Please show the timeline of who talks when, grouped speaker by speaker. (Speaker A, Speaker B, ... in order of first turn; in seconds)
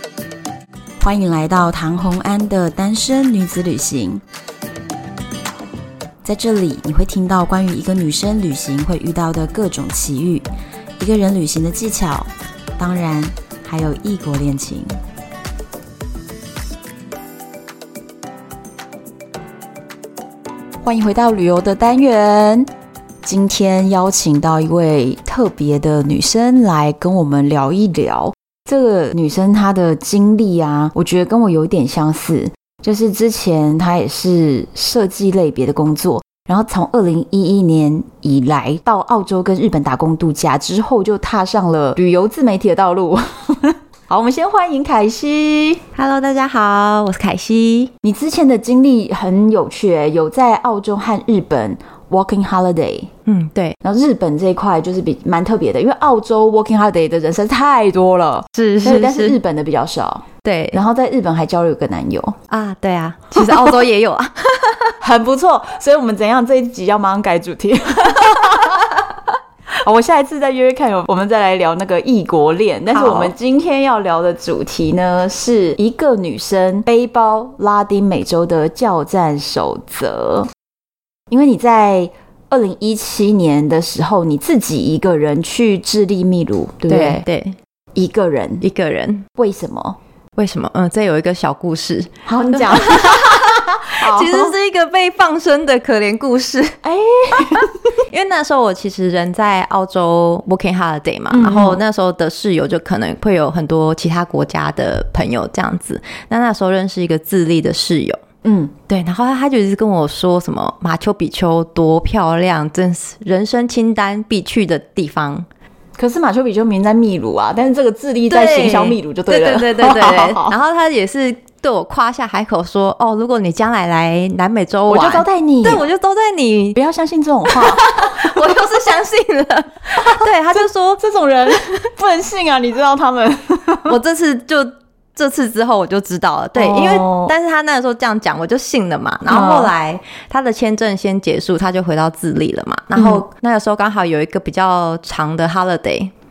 Speaker A: 1.0-4.2, 6.2-10.4, 11.0-14.9, 20.8-22.7, 23.2-45.8, 48.0-53.1, 53.8-62.4, 63.4-63.7, 65.0-68.9, 69.8-80.5, 81.3-87.2, 88.0-88.6, 89.4-90.0, 92.2-94.5, 96.8-97.7, 101.3-101.8, 108.4-108.7, 116.0-120.5, 124.9-125.8, 126.7-128.5, 129.9-133.9, 136.5-137.3, 139.3-139.7, 142.9-143.2
Speaker B: 45.9-47.9, 53.2-53.8, 58.5-59.4, 60.4-60.8, 62.5-64.9, 72.9-73.3, 86.9-87.6, 88.6-89.3, 90.3-96.8, 97.3-108.2, 108.9-115.5, 118.3-126.8, 127.5-131.6, 133.9-146.1